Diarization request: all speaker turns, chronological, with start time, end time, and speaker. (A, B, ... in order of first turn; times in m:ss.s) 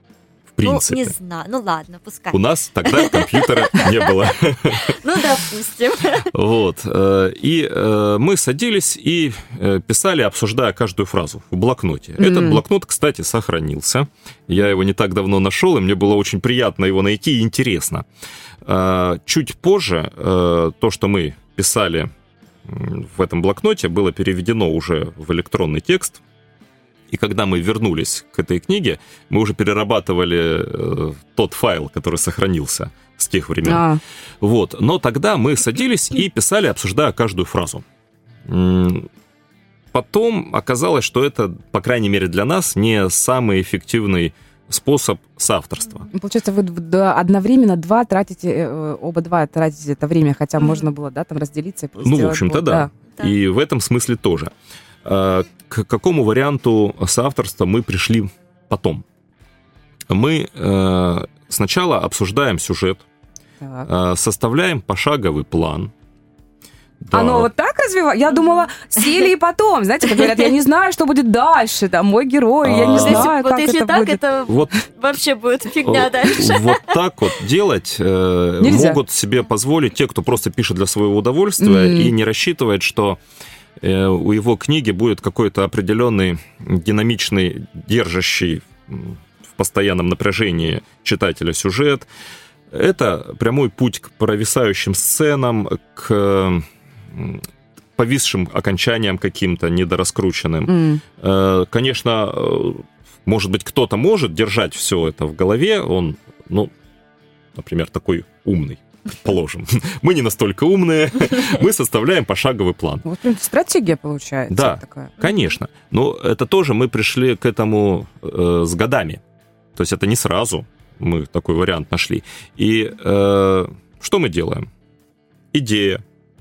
0:00.5-0:01.2 A
0:00.6-0:06.3 B
0:02.3-0:05.0 A
0:06.3-0:18.1 A
0:12.2-0:12.6 C
0:18.6-0:22.1 A
0:22.6-0:26.2 A
0:27.1-0:33.9 A
0:33.6-0:34.0 C
0:34.4-0:37.8 A
0:38.5-0:39.1 A
0:39.9-0:46.1 A
0:46.1-0:52.9 C
0:50.6-0:50.9 B
0:52.0-0:54.5 A
0:55.0-0:59.0 A
1:00.1-1:03.0 A
1:03.6-1:03.9 C
1:03.8-1:05.9 A
1:07.0-1:07.5 A
1:07.1-1:14.2 C
1:12.6-1:13.3 A
1:12.9-1:17.0 B
1:14.5-1:14.8 A
1:15.8-1:23.2 A
1:18.6-1:19.0 C
1:21.6-1:22.1 C
1:23.8-1:32.1 A
1:32.7-1:37.4 A
1:38.0-1:46.7 A
1:40.7-1:41.0 C
1:47.6-1:53.0 A
1:53.0-1:55.2 C
1:54.5-1:59.2 A
1:59.8-2:04.7 A
2:05.5-2:06.0 A